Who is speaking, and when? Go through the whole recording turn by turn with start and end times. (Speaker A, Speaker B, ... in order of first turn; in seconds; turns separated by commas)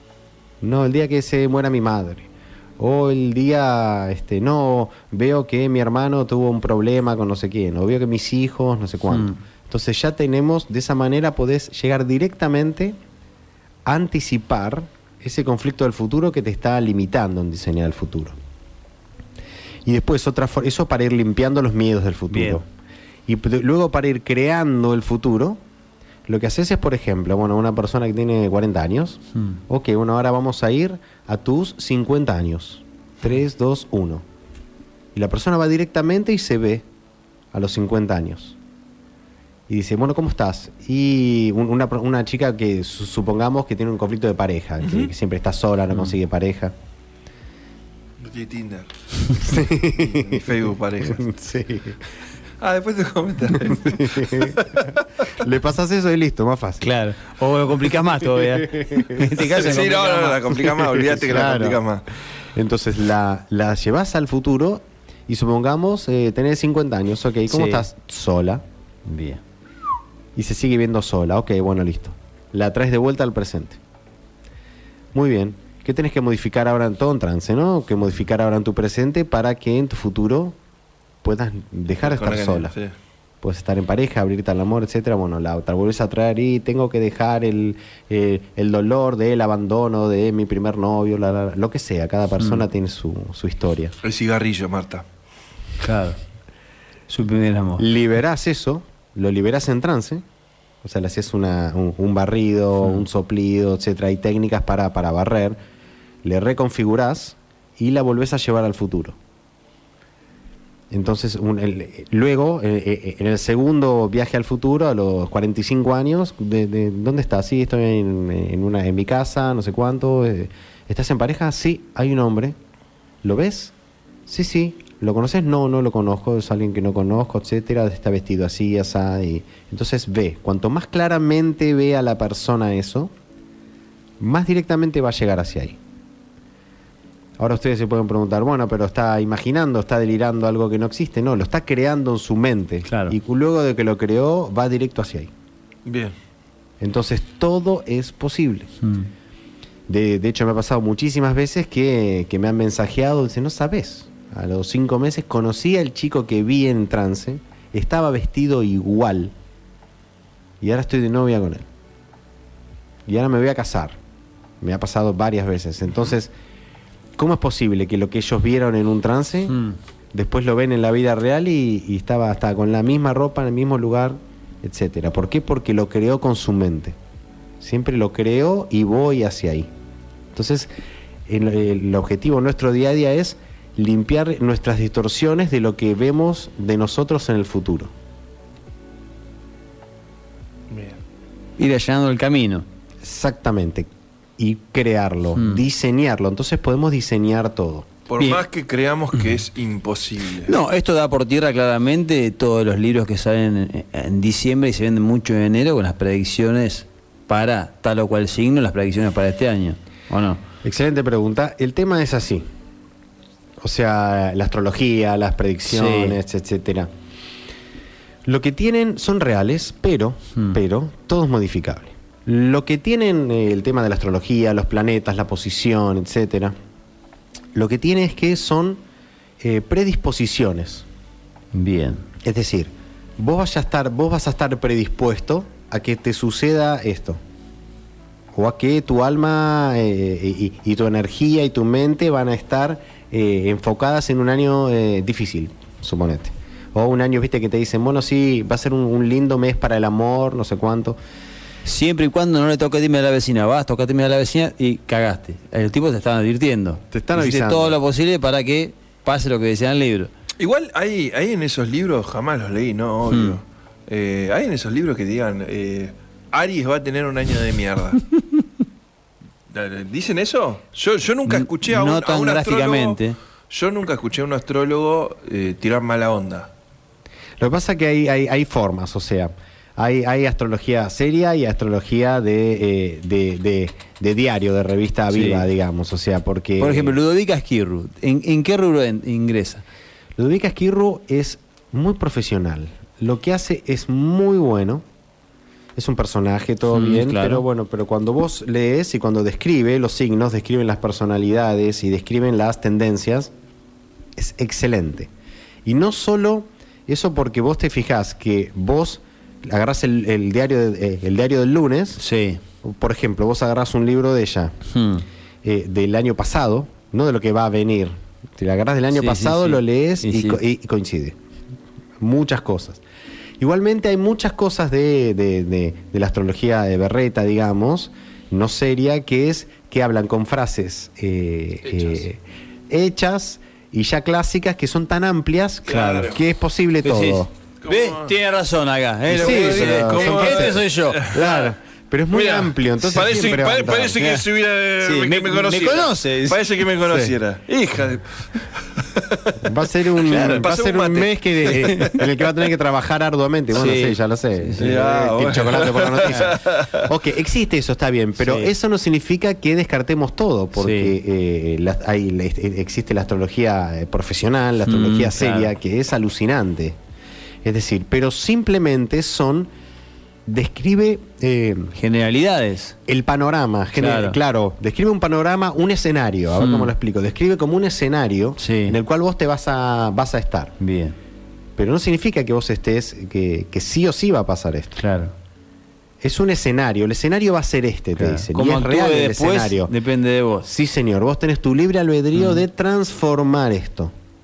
Speaker A: 0.6-13.0, Speaker B: 9.1-9.4, Speaker A: 13.9-18.4, Speaker A: 19.9-22.6, Speaker B: 22.3-22.6, Speaker A: 23.3-25.6, Speaker A: 26.3-34.2, Speaker B: 29.4-29.6, Speaker A: 35.1-36.9, Speaker A: 37.5-38.6, Speaker A: 39.7-46.7, Speaker C: 44.8-45.1, Speaker C: 48.2-51.3, Speaker A: 49.4-50.5, Speaker A: 51.0-52.0, Speaker C: 52.6-55.0, Speaker A: 53.5-56.9, Speaker B: 56.8-60.7, Speaker A: 58.4-59.4, Speaker C: 59.4-62.1, Speaker A: 60.8-61.8, Speaker A: 62.5-68.6, Speaker B: 67.5-67.8, Speaker B: 69.0-69.4, Speaker A: 70.3-73.8, Speaker A: 75.1-80.6, Speaker A: 81.2-82.8, Speaker C: 82.0-82.9, Speaker A: 83.4-94.0, Speaker B: 92.4-92.6, Speaker C: 94.0-95.0, Speaker B: 95.8-96.2, Speaker B: 97.1-97.8, Speaker A: 97.8-100.2, Speaker A: 100.8-105.6, Speaker A: 106.2-109.2, Speaker A: 110.9-122.6, Speaker A: 123.2-123.7, Speaker A: 124.3-133.1, Speaker A: 134.2-135.8, Speaker A: 137.4-145.3, Speaker B: 142.9-143.2, Speaker C: 145.9-146.2, Speaker A: 146.8-148.7, Speaker B: 148.8-149.1, Speaker A: 149.9-159.3, Speaker A: 160.6-161.7, Speaker A: 163.1-164.0, Speaker A: 164.6-166.3, Speaker A: 167.2-169.6, Speaker B: 169.5-169.8, Speaker A: 170.1-177.0, Speaker A: 177.6-179.7, Speaker A: 180.3-180.7, Speaker A: 181.3-187.9, Speaker C: 190.7-191.0, Speaker B: 191.6-192.7, Speaker A: 193.0-197.9, Speaker B: 195.4-195.6, Speaker C: 198.1-200.5, Speaker B: 200.4-210.4, Speaker A: 210.6-212.5, Speaker A: 213.6-216.9, Speaker B: 215.7-216.2, Speaker A: 218.3-226.6, Speaker A: 227.5-228.8, Speaker A: 229.4-230.9, Speaker B: 231.5-232.1, Speaker A: 232.2-237.2, Speaker A: 238.3-251.0, Speaker B: 251.7-260.1, Speaker A: 256.9-257.8, Speaker C: 260.4-268.0, Speaker B: 263.1-263.4, Speaker C: 269.5-276.5, Speaker B: 271.3-273.2, Speaker A: 277.4-286.9, Speaker B: 285.1-285.4, Speaker B: 286.6-289.6, Speaker A: 290.2-294.8, Speaker A: 295.8-303.3, Speaker B: 296.7-297.4, Speaker A: 304.2-305.1, Speaker A: 305.6-312.0, Speaker B: 312.0-312.4, Speaker A: 312.6-314.6, Speaker B: 314.7-315.1, Speaker A: 315.4-321.2, Speaker B: 318.9-320.4, Speaker A: 322.0-322.8, Speaker A: 323.4-337.3, Speaker C: 331.6-332.0, Speaker C: 335.7-336.2, Speaker B: 335.7-336.1, Speaker B: 336.8-341.0, Speaker C: 337.6-338.1, Speaker C: 339.1-341.6, Speaker A: 339.1-344.0, Speaker C: 342.1-352.1, Speaker B: 344.0-344.2, Speaker B: 344.8-346.4, Speaker A: 346.9-347.1, Speaker A: 349.4-366.8, Speaker B: 350.0-350.5, Speaker B: 353.5-354.7, Speaker C: 354.6-356.9, Speaker B: 358.2-358.5, Speaker B: 360.6-360.9, Speaker B: 364.6-365.5, Speaker A: 367.4-369.5, Speaker A: 370.3-371.7, Speaker B: 371.7-372.8, Speaker A: 372.9-380.6, Speaker B: 373.8-374.2, Speaker B: 376.4-376.7, Speaker B: 378.4-378.8, Speaker B: 380.6-381.0, Speaker A: 381.6-384.8, Speaker B: 384.8-385.1, Speaker A: 386.0-389.7, Speaker B: 388.0-390.5, Speaker A: 390.4-393.9, Speaker B: 392.1-392.4